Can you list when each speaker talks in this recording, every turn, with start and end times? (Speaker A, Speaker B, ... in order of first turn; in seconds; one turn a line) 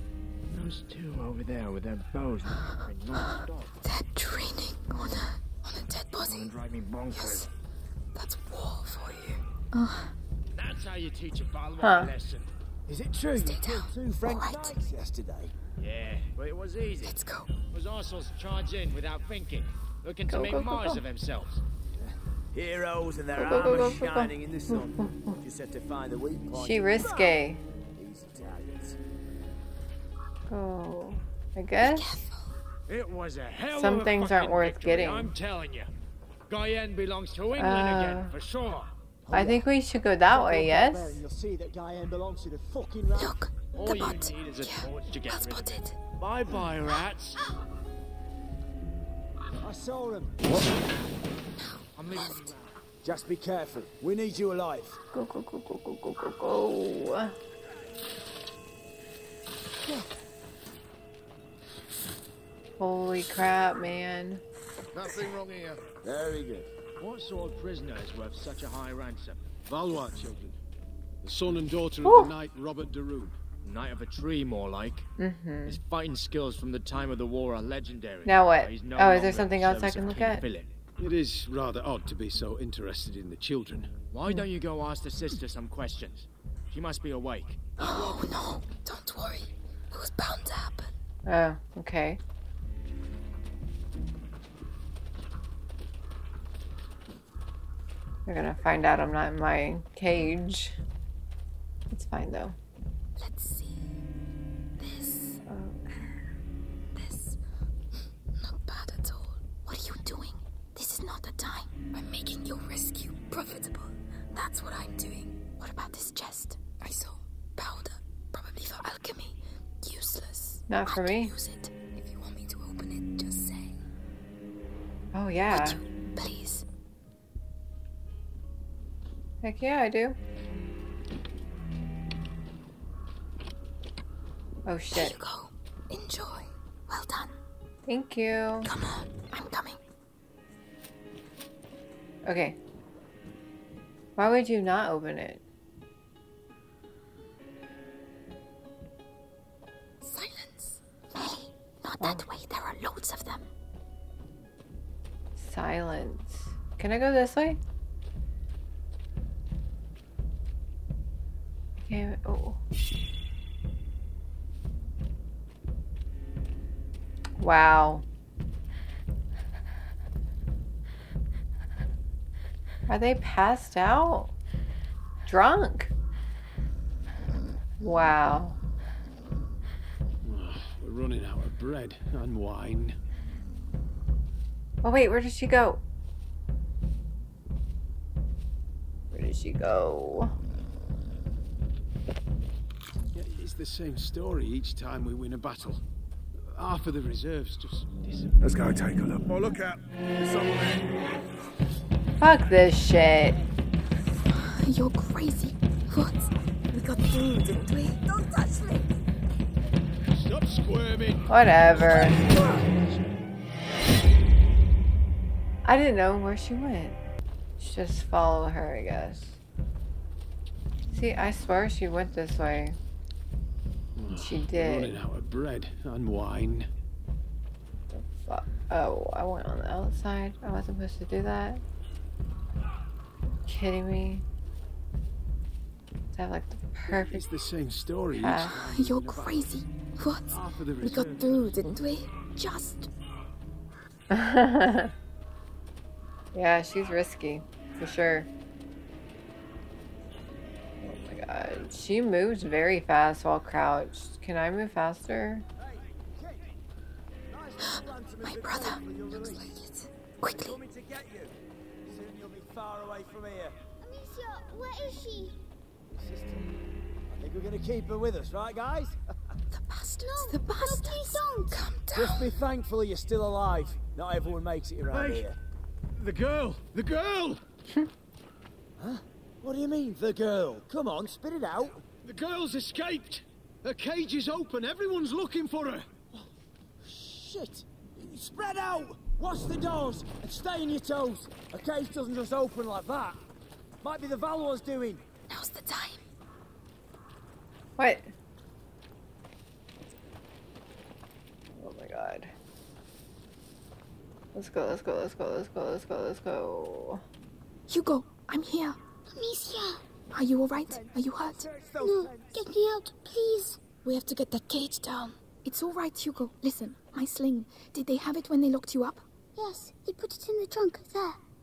Speaker A: 0.5-3.7
Speaker B: 3.8-6.5
Speaker A: 6.2-7.5
Speaker B: 7.1-7.5
Speaker B: 8.1-10.1
Speaker A: 10.6-12.4
Speaker C: 11.8-12.1
Speaker D: 12.9-15.5
Speaker B: 13.4-14.8
Speaker A: 15.8-17.2
Speaker B: 17.0-17.5
Speaker A: 17.7-21.6
Speaker C: 20.3-21.0
Speaker D: 21.9-29.0
Speaker C: 23.4-25.4
Speaker C: 26.5-27.6
Speaker C: 30.5-32.3
Speaker B: 31.8-32.5
Speaker A: 32.9-35.9
Speaker C: 33.7-35.3
Speaker A: 36.5-38.9
Speaker C: 37.5-38.3
Speaker D: 39.2-43.4
Speaker C: 39.3-41.2
Speaker B: 43.1-45.9
Speaker A: 43.8-47.4
Speaker D: 49.6-50.7
Speaker A: 51.9-52.7
Speaker B: 52.2-52.5
Speaker D: 53.0-55.0
Speaker C: 55.1-57.4
Speaker C: 62.8-64.4
Speaker E: 64.9-65.8
Speaker D: 66.0-66.7
Speaker A: 67.0-69.4
Speaker F: 69.7-70.5
Speaker F: 71.2-73.4
Speaker C: 72.0-72.3
Speaker A: 73.6-75.1
Speaker C: 75.2-75.8
Speaker A: 75.7-80.7
Speaker C: 78.2-80.4
Speaker F: 81.0-84.0
Speaker A: 84.1-88.2
Speaker B: 87.8-90.9
Speaker C: 91.3-92.2
Speaker C: 98.2-100.8
Speaker C: 101.9-102.6
Speaker B: 103.2-103.9
Speaker B: 104.8-105.4
Speaker C: 105.5-105.8
Speaker B: 106.9-107.4
Speaker B: 108.4-123.7
Speaker C: 120.7-121.3
Speaker C: 125.1-125.8
Speaker B: 125.5-126.6
Speaker C: 129.4-130.2
Speaker C: 134.7-135.2
Speaker B: 134.9-137.3
Speaker C: 137.8-138.7
Speaker B: 138.6-139.8
Speaker C: 142.2-142.6
Speaker C: 144.2-145.4
Speaker B: 150.0-153.5
Speaker C: 152.0-152.3
Speaker C: 155.4-157.6
Speaker C: 161.8-162.6
Speaker C: 167.4-168.0
Speaker C: 172.9-174.3
Speaker C: 175.3-175.9
Speaker C: 177.8-178.6
Speaker F: 180.2-182.9
Speaker C: 184.8-185.8
Speaker C: 189.1-190.3
Speaker F: 193.1-195.8
Speaker F: 196.5-198.4
Speaker E: 198.4-200.8
Speaker C: 202.2-203.4
Speaker B: 204.3-208.0
Speaker G: 208.3-208.8
Speaker F: 210.1-213.0
Speaker C: 211.3-212.2
Speaker C: 215.6-217.0
Speaker C: 217.6-219.4
Speaker C: 220.9-222.8
Speaker F: 224.0-226.7
Speaker C: 224.1-224.9
Speaker C: 227.9-231.6
Speaker C: 233.5-234.2
Speaker C: 236.1-237.3
Speaker F: 236.9-239.5
Speaker C: 238.1-238.5
Speaker B: 238.5-242.9
Speaker F: 240.3-241.5
Speaker C: 244.1-244.9
Speaker C: 246.3-248.3
Speaker C: 250.8-255.4
Speaker D: 255.6-256.5
Speaker D: 257.3-259.5
Speaker B: 257.6-260.5
Speaker D: 260.3-261.3
Speaker D: 261.9-263.6
Speaker G: 263.8-265.4
Speaker D: 265.9-266.5
Speaker D: 267.1-269.0
Speaker B: 269.5-272.4
Speaker G: 270.0-271.6
Speaker D: 271.9-275.4
Speaker F: 274.9-275.3
Speaker F: 276.0-277.4
Speaker D: 278.8-281.8
Speaker F: 282.0-285.9
Speaker D: 286.8-293.2
Speaker D: 293.8-295.0
Speaker B: 295.3-296.0
Speaker C: 297.8-298.1
Speaker C: 301.6-302.3
Speaker C: 304.3-307.0
Speaker B: 307.7-308.8
Speaker G: 309.1-309.8
Speaker B: 310.1-311.5
Speaker D: 310.7-312.5
Speaker G: 311.8-313.6
Speaker B: 313.8-319.0
Speaker G: 319.4-321.2